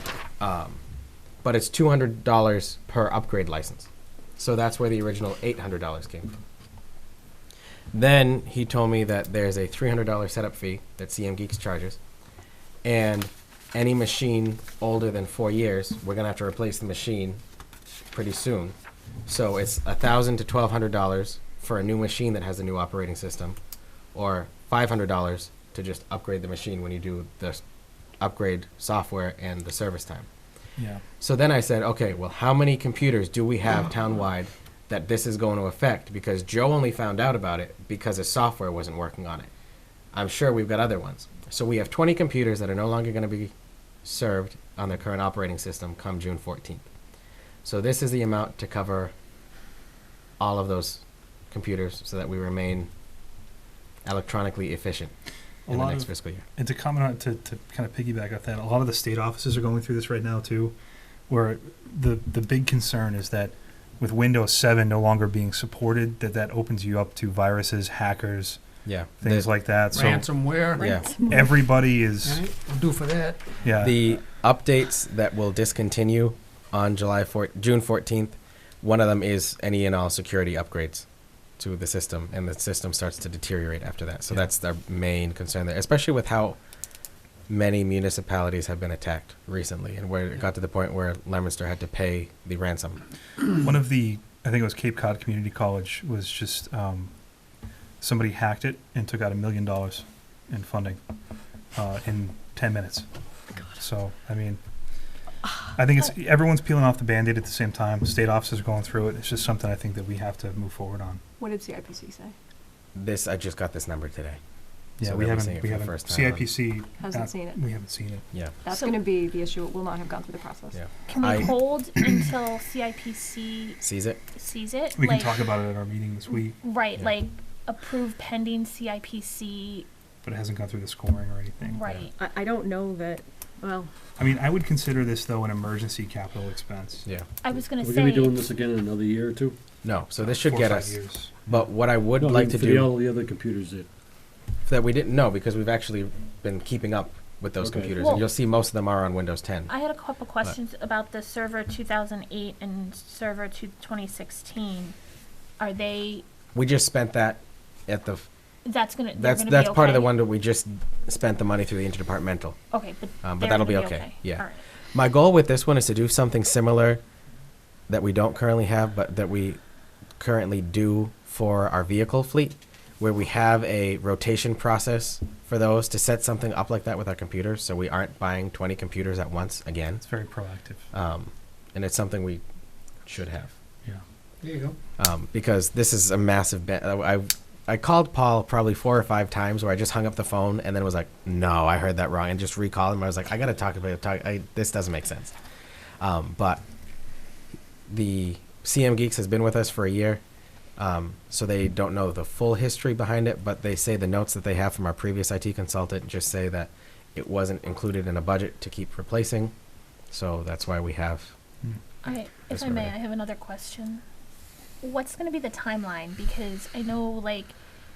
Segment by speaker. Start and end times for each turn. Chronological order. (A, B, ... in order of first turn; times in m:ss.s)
0:00.4-0:00.8 A
0:01.4-0:06.4 A
0:07.9-0:12.0 A
0:12.8-0:17.4 A
0:18.1-0:18.8 A
0:19.3-0:23.6 A
0:24.1-0:27.6 A
0:28.2-0:30.3 A
0:30.8-0:31.0 B
0:31.2-0:39.5 A
0:40.1-0:43.5 A
0:44.0-0:46.8 A
0:47.6-0:49.1 A
0:50.4-0:52.9 A
0:54.0-0:55.1 A
0:55.7-1:00.8 B
0:55.7-0:56.4 A
1:01.3-1:08.6 B
1:08.8-1:09.5 A
1:09.2-1:10.3 B
1:09.9-1:10.9 C
1:10.8-1:11.6 D
1:10.8-1:11.1 A
1:11.2-1:12.4 B
1:12.2-1:13.6 C
1:13.6-1:14.0 B
1:13.8-1:21.1 A
1:21.6-1:26.6 A
1:27.5-1:33.0 A
1:33.6-1:37.1 B
1:38.0-1:41.0 B
1:41.8-1:43.1 B
1:43.7-1:44.6 B
1:45.8-1:51.2 B
1:51.4-1:52.4 D
1:53.0-1:54.4 A
1:55.0-1:58.2 B
1:55.0-1:56.5 A
1:57.0-1:57.6 D
1:58.6-2:00.8 D
1:58.7-1:59.0 E
2:00.7-2:01.5 A
2:01.1-2:03.8 E
2:03.8-2:04.2 A
2:04.4-2:05.4 E
2:05.0-2:06.6 B
2:06.6-2:09.9 E
2:10.2-2:11.8 B
2:11.7-2:12.2 E
2:12.2-2:13.9 D
2:14.2-2:17.1 B
2:17.4-2:18.4 E
2:17.8-2:19.6 F
2:19.8-2:23.0 A
2:20.2-2:21.7 B
2:22.1-2:23.9 F
2:24.7-2:29.7 A
2:27.6-2:28.2 F
2:29.7-2:35.0 E
2:35.6-2:36.2 E
2:36.6-2:38.3 A
2:38.6-2:40.1 E
2:39.2-2:42.6 A
2:42.7-2:44.6 E
2:43.2-2:47.0 A
2:47.9-2:49.6 A
2:50.2-3:00.0 A
3:00.0-3:00.9 B
3:00.9-3:02.4 A
3:03.1-3:03.5 A
3:04.4-3:04.8 C
3:05.0-3:15.3 A
3:16.0-3:16.6 A
3:17.9-3:20.2 A
3:20.8-3:29.5 A
3:30.1-3:31.3 A
3:32.0-3:34.0 E
3:32.5-3:32.9 A
3:34.8-3:37.6 E